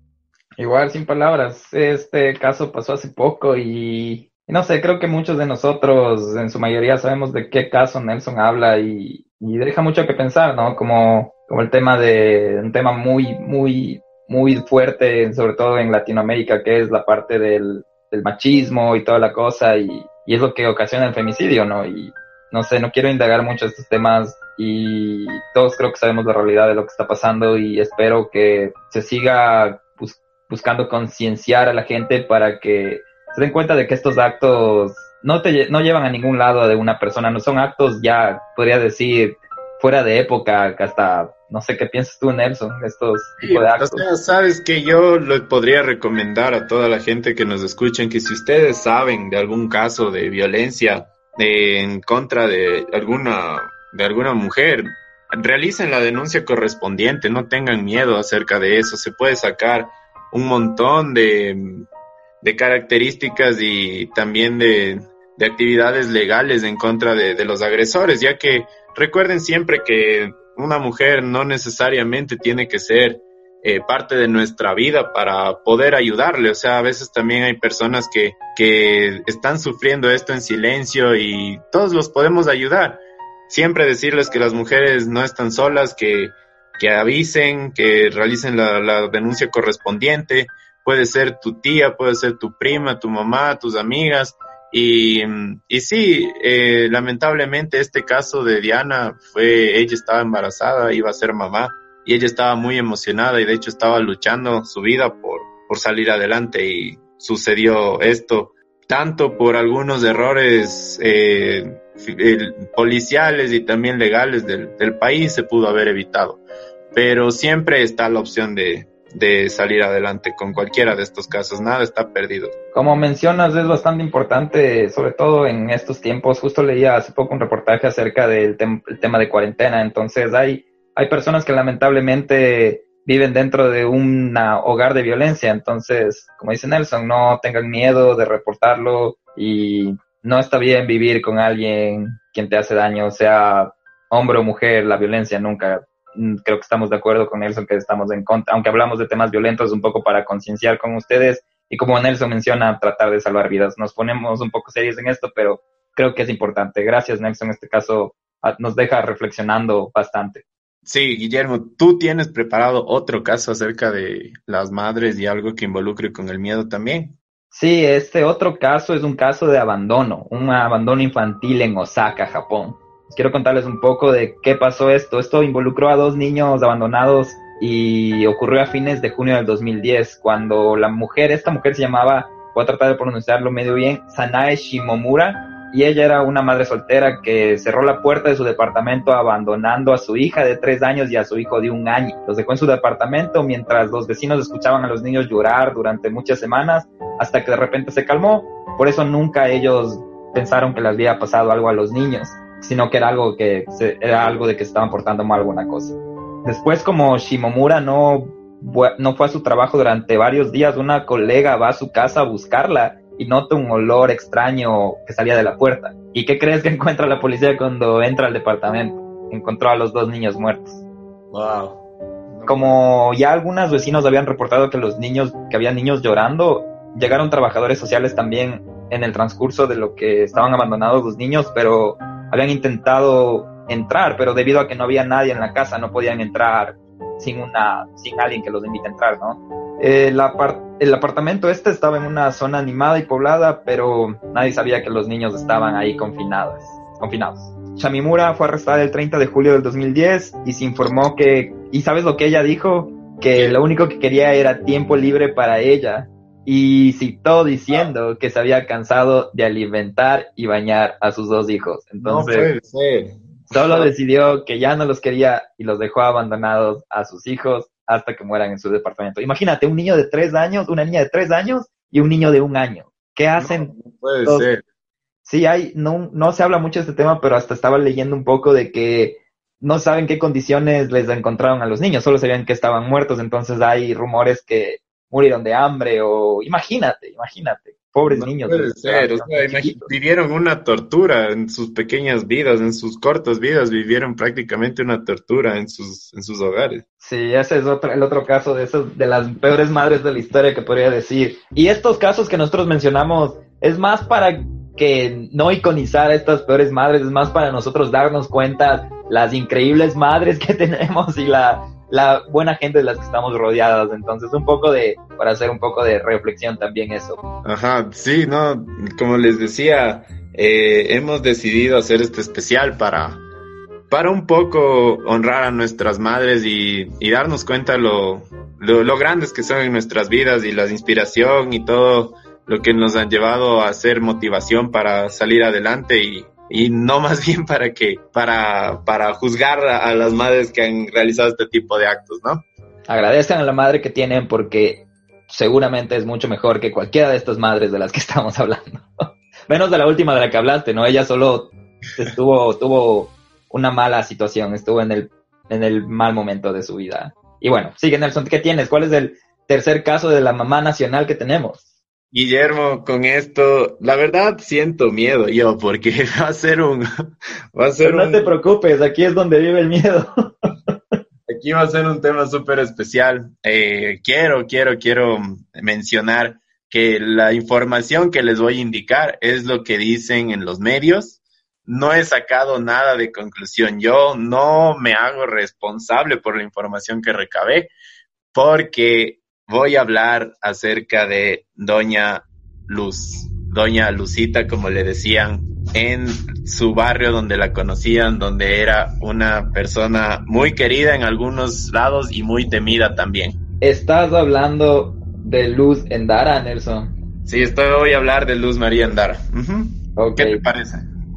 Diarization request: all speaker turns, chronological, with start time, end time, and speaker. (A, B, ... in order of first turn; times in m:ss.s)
0:00.6-0:44.1 A
0:43.4-1:01.9 B
1:02.4-2:02.5 B
2:02.7-2:40.4 A
2:40.8-2:47.2 B
2:47.5-3:40.8 A
3:41.3-3:42.7 B
3:42.5-4:22.5 A
4:22.0-4:23.9 B
4:23.5-4:33.7 A
4:33.4-4:34.6 B
4:35.2-4:49.9 A
4:48.1-4:56.8 B
4:57.0-5:17.2 A
5:17.4-5:23.2 B
5:23.9-5:42.4 B
5:42.9-6:01.6 A
6:02.1-6:06.9 B
6:07.6-6:08.3 B
6:07.8-6:10.3 A
6:11.3-6:27.7 B
6:28.3-6:43.4 B
6:43.6-6:46.9 A
6:47.3-6:50.9 B
6:50.0-6:50.4 A